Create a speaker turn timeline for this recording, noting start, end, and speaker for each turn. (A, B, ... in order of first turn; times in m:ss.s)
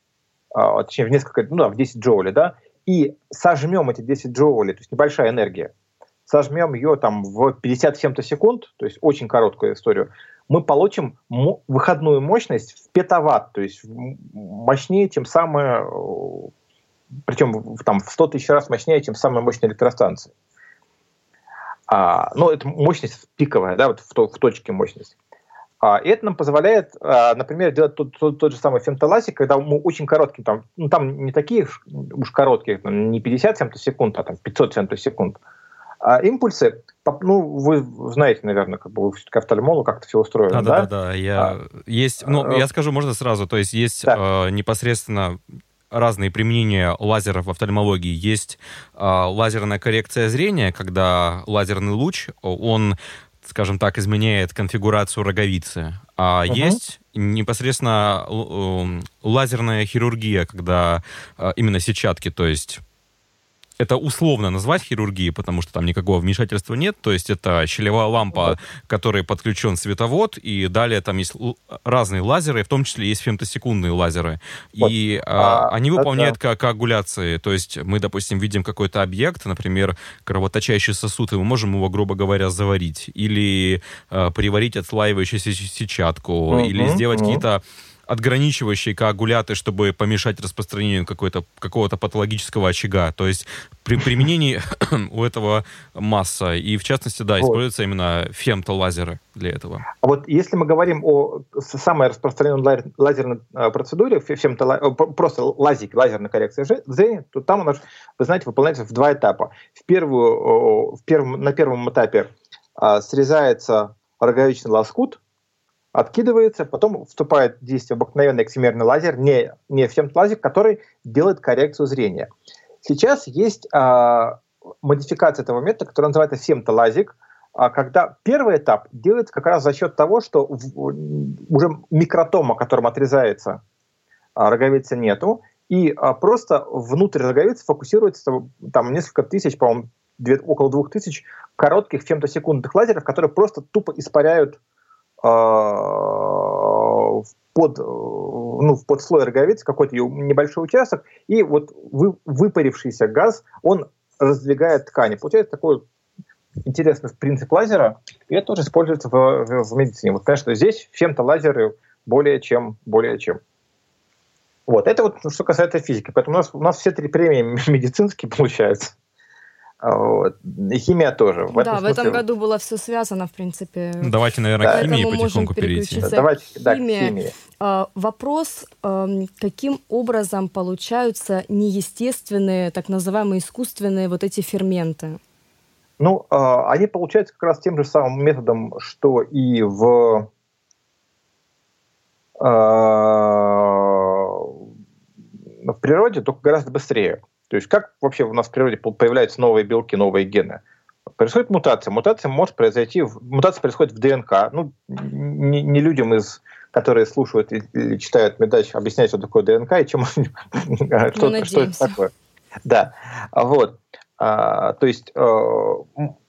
0:00.5-0:05.7 A
0:06.3-0:16.5 A
0:17.3-0:20.3 A
0:21.9-0:25.1 A
0:25.8-0:35.4 A
0:36.0-0:41.6 A
0:40.5-1:02.8 B
0:42.2-0:42.6 A
0:56.5-0:56.8 A
1:03.8-1:39.9 B
1:14.8-1:16.4 A
1:26.5-1:27.4 A
1:40.0-1:55.2 A
1:55.9-2:02.3 A
2:02.8-2:13.6 A
2:14.4-2:24.6 A
2:25.2-2:35.8 A
2:36.6-2:43.4 A
2:44.7-2:49.0 A
2:49.8-2:52.2 A
2:51.5-3:05.2 C
2:54.0-2:56.1 B
2:54.6-2:54.9 A
2:56.0-2:57.3 A
3:06.0-3:10.3 A
3:12.4-3:14.6 A
3:15.6-3:20.6 A
3:21.2-3:32.1 A
3:31.2-3:32.0 C
3:32.6-3:36.1 A